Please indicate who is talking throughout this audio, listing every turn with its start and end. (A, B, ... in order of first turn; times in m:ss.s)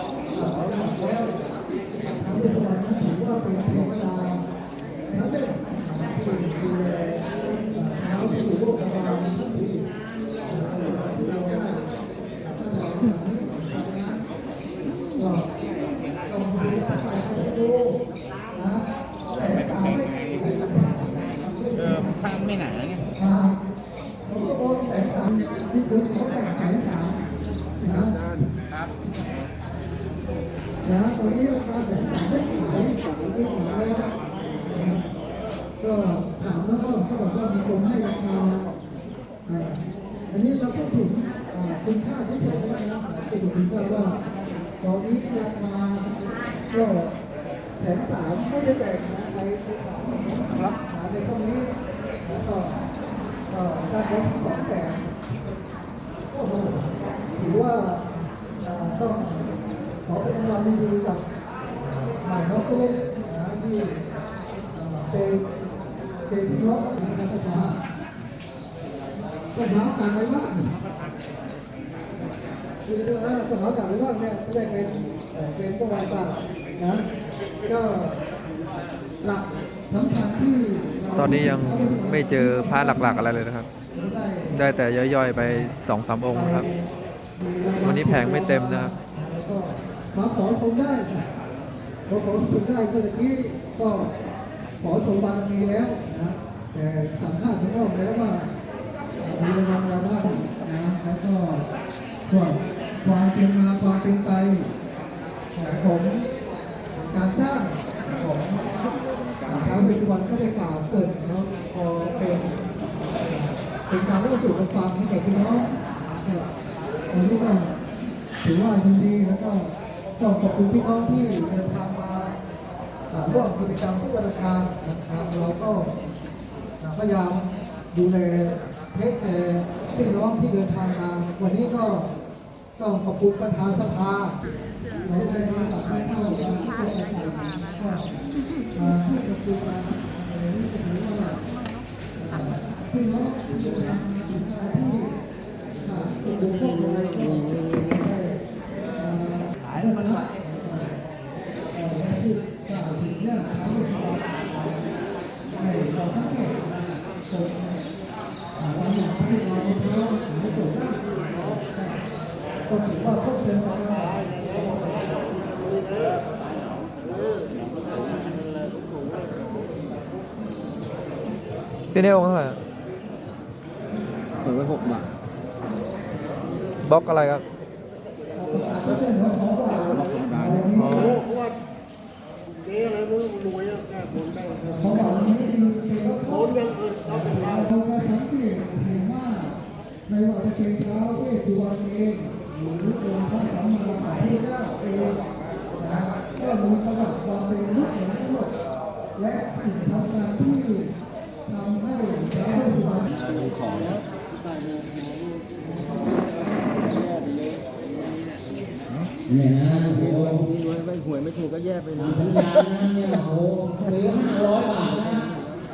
0:00.3-0:01.4 A
0:02.0-0:04.4 A
0:05.1-0:09.9 A
0:10.4-0:11.9 A
0:12.4-0:14.2 A
0:15.2-0:15.5 A
0:16.3-0:18.0 A
0:18.5-0:22.3 A
0:19.6-0:20.0 B
0:22.0-0:23.0 B
0:23.2-0:23.6 A
0:24.3-0:27.2 A
0:27.8-0:28.4 A
0:30.8-0:34.1 A
0:34.7-0:35.0 A
0:35.8-0:38.8 A
0:39.5-0:44.2 A
0:44.8-0:47.1 A
0:47.8-0:52.8 A
0:50.5-0:50.8 C
0:53.5-0:55.1 A
0:56.3-0:58.0 A
0:58.6-0:59.5 A
1:00.1-1:01.2 A
1:01.8-1:04.0 A
1:04.7-1:05.5 A
1:06.3-1:07.8 A
1:09.5-1:10.8 A
1:12.9-1:17.0 A
1:17.6-1:18.2 A
1:19.2-1:23.4 A
1:21.1-1:23.7 C
1:23.9-1:24.6 A
1:24.5-1:26.7 C
1:25.4-1:25.8 A
1:26.3-1:31.3 A
1:27.8-1:28.9 C
1:32.1-1:34.1 A
1:34.8-1:38.5 A
1:39.2-1:41.7 A
1:42.3-1:44.7 A
1:45.6-1:46.3 A
1:46.9-1:48.6 A
1:49.4-1:52.5 A
1:53.2-1:56.5 A
1:57.1-1:57.8 A
1:58.4-2:02.4 A
2:03.1-2:05.9 A
2:06.8-2:12.1 A
2:12.8-2:14.4 A
2:15.0-2:18.1 A
2:18.7-2:21.4 A
2:22.2-2:25.2 A
2:25.8-2:28.4 A
2:29.0-2:31.0 A
2:31.7-2:34.8 A
2:35.6-2:37.8 A
2:38.6-2:42.0 A
2:42.7-2:45.2 A
2:51.9-2:52.6 C
2:54.4-2:55.0 B
2:56.8-2:57.4 C
2:58.3-3:01.2 A
2:59.9-3:01.0 B
3:00.7-3:01.2 C
3:04.6-3:15.2 A
3:15.8-3:18.5 A
3:19.2-3:21.0 A
3:21.5-3:23.1 A
3:23.1-3:24.0 B
3:29.3-3:30.4 D
3:29.8-3:32.6 B
3:32.0-3:35.2 D